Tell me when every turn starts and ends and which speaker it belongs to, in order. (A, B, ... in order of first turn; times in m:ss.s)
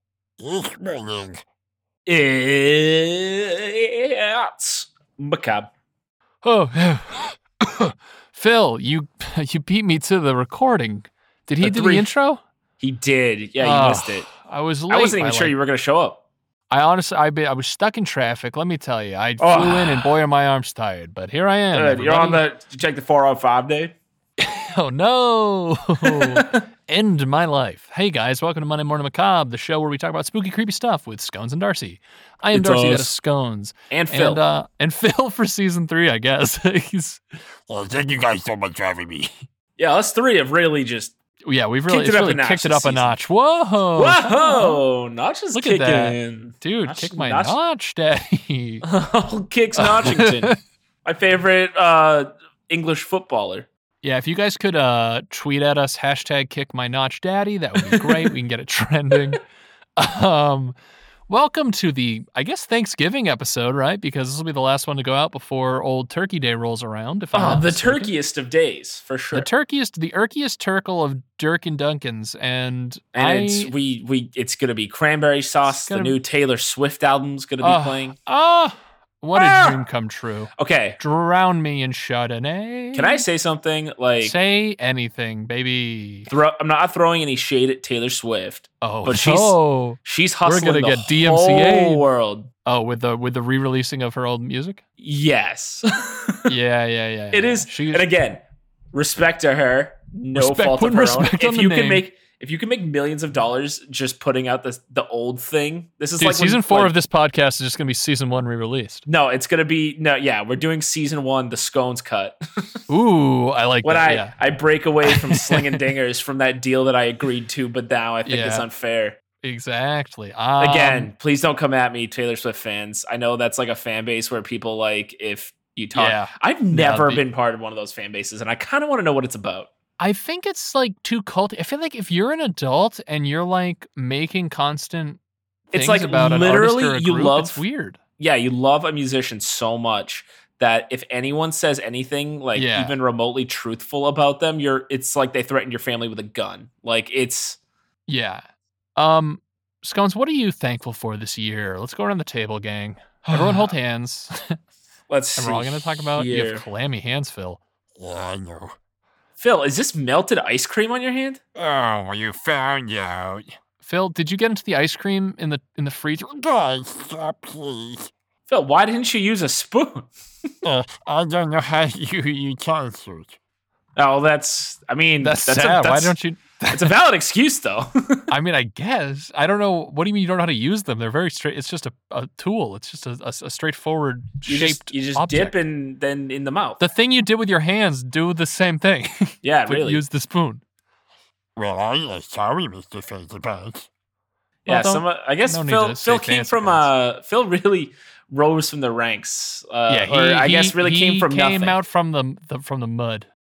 0:00.4-0:01.4 A
0:02.1-0:05.7 B
0:06.4-0:12.4 C
0:11.6-0:12.1 B
0:12.8-0:14.3 B
0:13.6-0:15.6 C
0:14.9-0:16.2 B
0:16.7-0:22.4 C
0:19.4-0:20.2 B
0:21.7-0:23.9 B
0:24.4-0:37.2 C
0:26.0-0:26.6 B
0:32.5-0:33.2 B
0:33.9-0:34.4 B
0:37.7-0:39.3 A
0:39.8-0:41.1 B
0:41.5-0:44.8 C
0:41.9-0:43.2 B
0:44.0-0:47.6 B
0:45.5-0:48.8 C
0:48.8-0:53.7 B
0:49.8-0:50.6 C
0:54.0-0:59.4 C
0:57.9-0:58.3 B
1:00.0-1:00.8 C
1:01.3-1:08.1 C
1:07.3-1:09.5 B
1:09.3-1:13.7 C
1:13.2-1:18.2 B
1:15.7-1:16.2 C
1:17.6-1:23.2 C
1:19.4-1:19.8 B
1:20.6-1:21.0 B
1:22.9-1:24.4 B
1:24.2-1:26.3 C
1:26.3-1:32.5 B
1:28.8-1:32.0 C
1:32.6-1:34.8 C
1:35.0-1:36.5 B
1:36.5-1:38.1 C
1:37.3-1:46.9 B
1:40.4-1:42.0 C
1:46.2-1:49.0 C
1:49.1-1:52.8 B
1:52.9-1:54.3 C
1:53.8-1:59.2 B
1:55.0-1:55.8 C
1:58.3-1:58.7 C
1:59.4-2:01.1 C
2:00.6-2:09.7 B
2:06.0-2:07.2 C
2:10.0-2:15.2 C
2:15.7-2:18.0 C
2:15.7-2:17.6 B
2:18.2-2:27.6 B
2:22.6-2:23.0 C
2:28.1-2:28.4 C
2:29.0-2:34.6 C
2:33.3-2:33.7 B
2:35.1-2:36.6 B
2:35.4-2:37.6 C
2:38.0-2:38.8 A
2:39.4-2:41.4 B
2:41.6-2:43.5 A
2:43.8-2:46.3 C
2:46.3-2:48.1 A
2:48.5-2:50.1 B
2:50.6-2:53.4 A
2:54.0-2:56.2 B
2:55.2-2:56.9 C
2:56.7-2:58.3 B
2:58.3-3:05.5 C
3:04.5-3:06.8 B
3:06.8-3:10.6 C
3:09.4-3:10.0 B
3:11.6-3:13.9 A
3:14.7-3:16.9 C
3:14.7-3:21.8 B
3:19.9-3:23.3 C